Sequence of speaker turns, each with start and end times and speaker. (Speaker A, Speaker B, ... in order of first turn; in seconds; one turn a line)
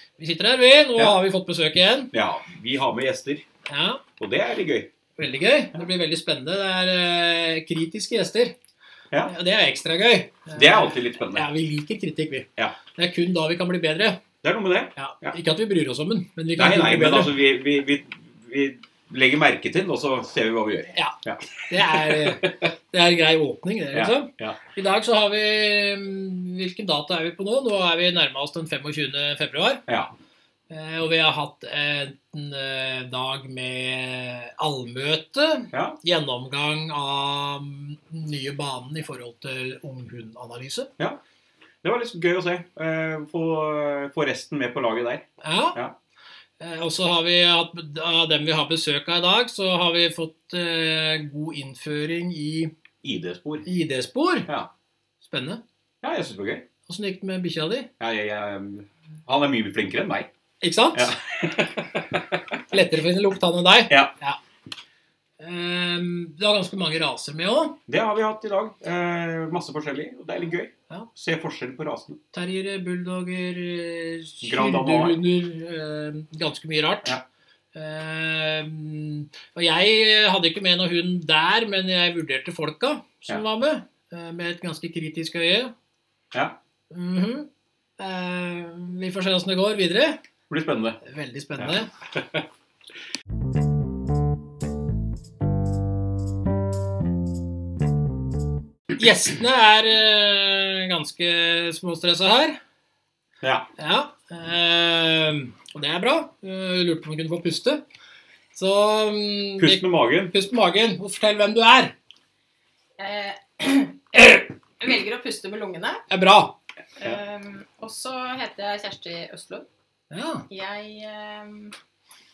Speaker A: 0.2-2.1
Speaker B: 2.1-3.5
Speaker A: 3.7-4.0
Speaker B: 4.2-4.9
Speaker A: 5.2-8.6
Speaker A: 9.3-14.2
Speaker B: 10.5-11.5
Speaker B: 14.4-15.4
Speaker A: 15.0-17.4
Speaker B: 16.6-22.7
Speaker A: 21.7-29.8
Speaker B: 23.9-24.6
Speaker A: 30.7-40.9
Speaker B: 35.7-36.0
Speaker B: 41.8-46.0
Speaker A: 45.4-45.8
Speaker A: 46.6-52.7
Speaker B: 53.0-53.6
Speaker A: 53.6-54.5
Speaker A: 55.2-55.6
Speaker B: 56.0-56.7
Speaker A: 56.9-57.9
Speaker B: 58.0-60.3
Speaker A: 60.6-61.1
Speaker B: 60.9-62.4
Speaker A: 62.7-64.4
Speaker A: 65.4-67.8
Speaker B: 67.9-72.2
Speaker A: 72.3-77.2
Speaker B: 74.4-75.2
Speaker A: 77.7-85.7
Speaker A: 86.9-87.5
Speaker A: 88.0-90.2
Speaker B: 90.5-91.0
Speaker A: 91.0-91.9
Speaker B: 91.6-92.5
Speaker A: 99.0-102.6
Speaker B: 103.4-103.7
Speaker A: 103.8-107.8
Speaker A: 108.5-111.9
Speaker B: 109.6-110.3
Speaker C: 113.0-116.0
Speaker A: 116.1-116.5
Speaker C: 117.0-119.7
Speaker A: 120.1-120.5
Speaker C: 120.5-121.8